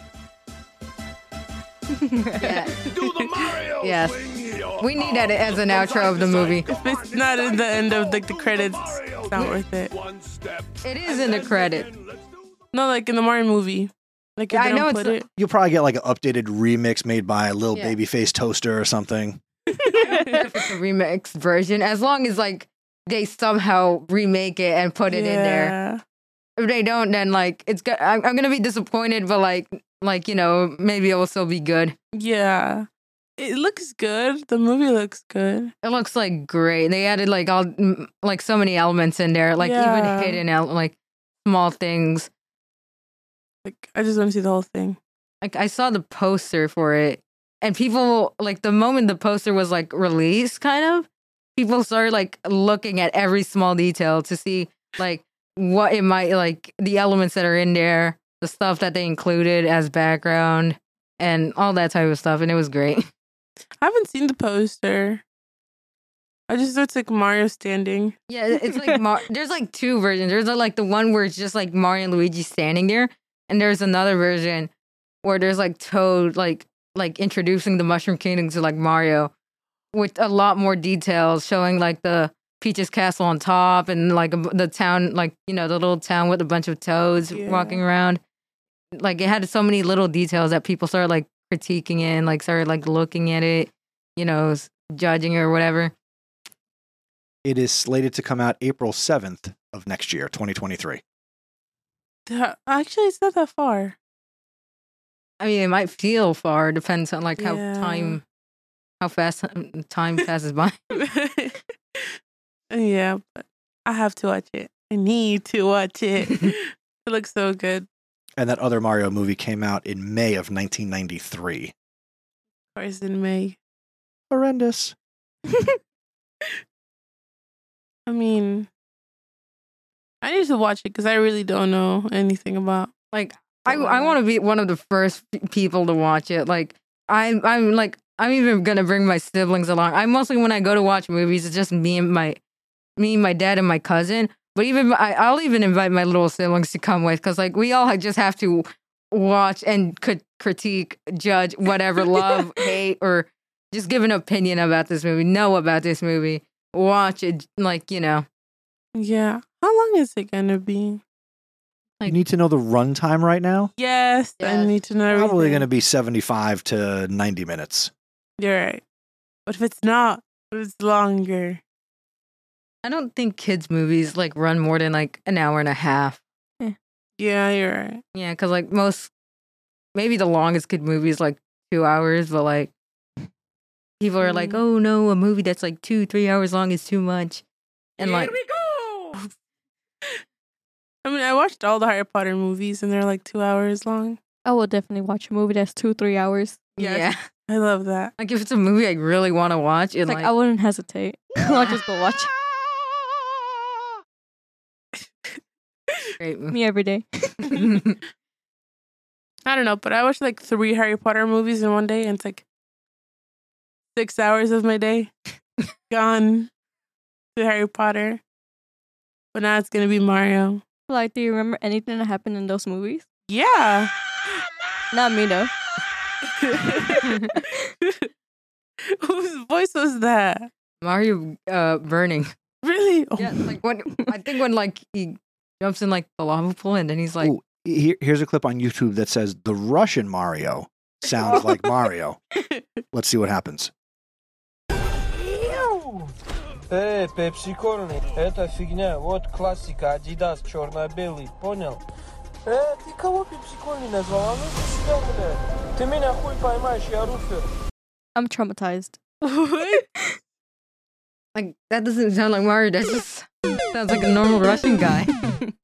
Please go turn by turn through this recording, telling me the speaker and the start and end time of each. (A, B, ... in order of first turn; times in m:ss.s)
0:02.0-0:02.7 A
0:02.4-0:02.7 B
0:02.9-0:12.6 C
0:03.0-0:03.4 D
0:03.8-0:04.2 B
0:04.8-0:06.7 B
0:06.7-0:09.9 D
0:10.8-0:11.9 B
0:12.7-0:15.3 D
0:14.5-0:15.2 B
0:15.4-0:19.4 E
0:19.8-0:20.4 D
0:20.0-0:25.8 B
0:25.1-0:26.0 D
0:26.6-0:32.0 B
0:32.1-0:32.9 D
0:33.4-0:35.7 D
0:35.8-0:42.3 B
0:39.6-0:40.4 D
0:43.6-0:45.0 D
0:45.4-1:03.1 B
1:03.8-1:05.2 D
1:06.5-1:08.2 D
1:08.3-1:14.7 B
1:15.2-1:19.3 B
1:19.9-1:28.2 B
1:27.3-1:27.8 D
1:28.9-1:35.9 B
1:37.4-1:41.0 E
1:42.3-1:44.0 D
1:45.4-1:48.2 B
1:47.4-1:48.2 D
1:49.0-1:50.8 B
1:50.9-1:52.2 D
1:52.7-1:57.9 D
1:58.4-2:01.7 E
2:02.8-2:03.6 D
2:04.3-2:05.0 E
2:08.1-2:08.7 D
2:10.2-2:12.9 D
2:13.1-2:22.4 B
2:13.7-2:14.2 D
2:23.0-2:38.3 B
2:39.0-2:41.0 D
2:42.1-2:43.7 E
2:43.8-2:45.7 D
2:44.4-2:44.7 B
2:45.1-2:47.9 E
2:48.4-2:48.8 D
2:49.5-2:51.6 D
2:52.8-2:56.2 B
2:57.2-2:58.0 D
2:58.1-2:59.1 B
3:00.0-3:02.7 B
3:04.0-3:07.4 B
3:04.2-3:04.6 D
3:08.0-3:08.4 B
3:08.0-3:09.3 D
3:11.0-3:14.2 D
3:14.4-3:16.8 A
3:16.8-3:17.2 B
3:16.8-3:18.1 D
3:18.2-3:20.3 B
3:20.1-3:22.3 A
3:21.5-3:21.8 B
3:26.2-3:26.6 B
3:26.5-3:27.8 A
3:27.4-3:28.0 B
3:29.5-3:32.4 D
3:34.0-3:35.1 D
3:35.9-3:36.5 D
3:37.4-3:38.2 D
3:39.3-3:40.6 D
3:40.9-3:43.1 A
3:43.3-3:43.9 D
3:44.9-3:45.5 A
3:46.4-3:47.1 D
3:47.0-3:47.6 A
3:47.8-3:48.1 D
3:48.9-3:50.5 D
3:50.8-3:52.3 B
3:52.6-3:53.5 D
3:53.2-3:57.3 B
3:57.2-4:02.2 E
4:02.9-4:03.7 E
4:05.2-4:06.1 F
4:06.7-4:11.8 F
4:12.5-4:17.5 F
4:18.2-4:19.0 A
4:19.2-4:19.8 D
4:21.4-4:25.1 B